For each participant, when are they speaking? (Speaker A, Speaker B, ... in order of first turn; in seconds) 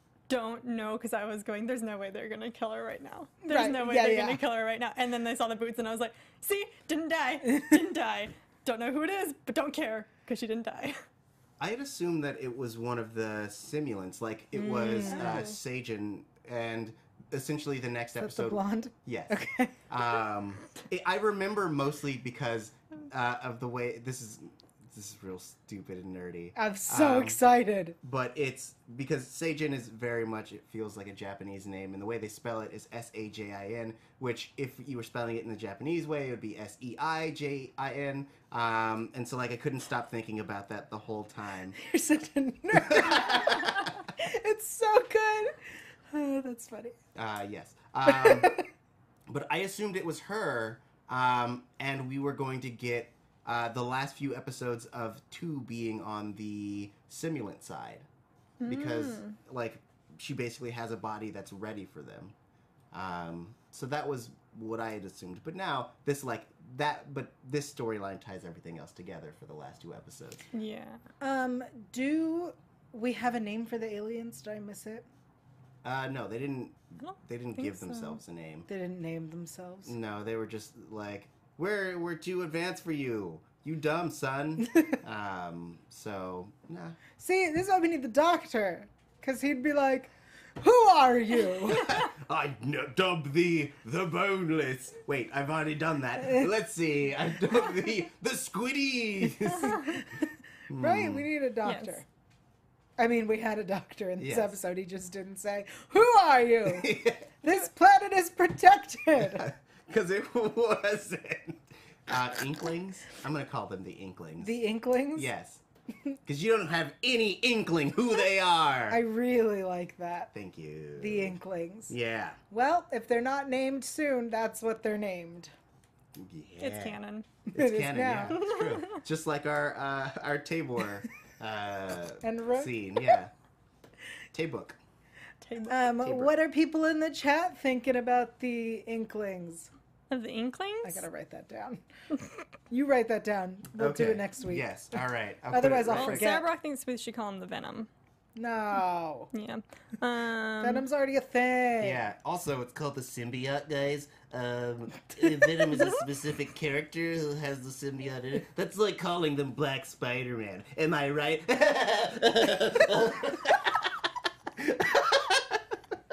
Speaker A: 0.3-11.0, 15.1-15.5, 58.6-59.4, 70.5-71.0, 77.0-78.2, 101.6-102.0, 126.6-127.3, 128.3-129.0, 135.4-135.8, 140.1-141.0, 145.9-147.9, 149.3-150.8
Speaker B: 3.4-4.4, 7.5-7.7, 14.5-15.5, 18.2-19.8, 26.5-28.0, 41.8-45.5, 46.1-47.0, 48.1-48.6, 71.2-75.0, 78.7-79.9, 87.2-92.0, 100.7-102.0, 103.0-109.5, 114.4-115.3, 118.9-120.3, 121.0-121.9, 122.5-125.5, 127.5-128.5, 132.2-133.1, 135.7-139.7, 140.8-141.8, 142.7-144.7, 145.5-146.4, 148.3-149.3, 150.6-152.0
Speaker C: 11.6-27.4, 28.0-41.8, 42.7-43.9, 47.1-48.6, 49.3-58.0, 58.6-62.3, 62.9-70.4, 75.8-78.7, 79.8-87.0, 91.6-100.0, 100.7-101.2, 104.2-104.5, 106.7-107.3, 109.2-114.6, 115.1-115.6, 116.2-119.0, 120.3-121.4, 121.9-122.4, 126.1-127.0, 127.5-133.3, 134.3-134.8, 136.0-136.3, 143.8-146.3, 151.8-163.9, 164.6-165.6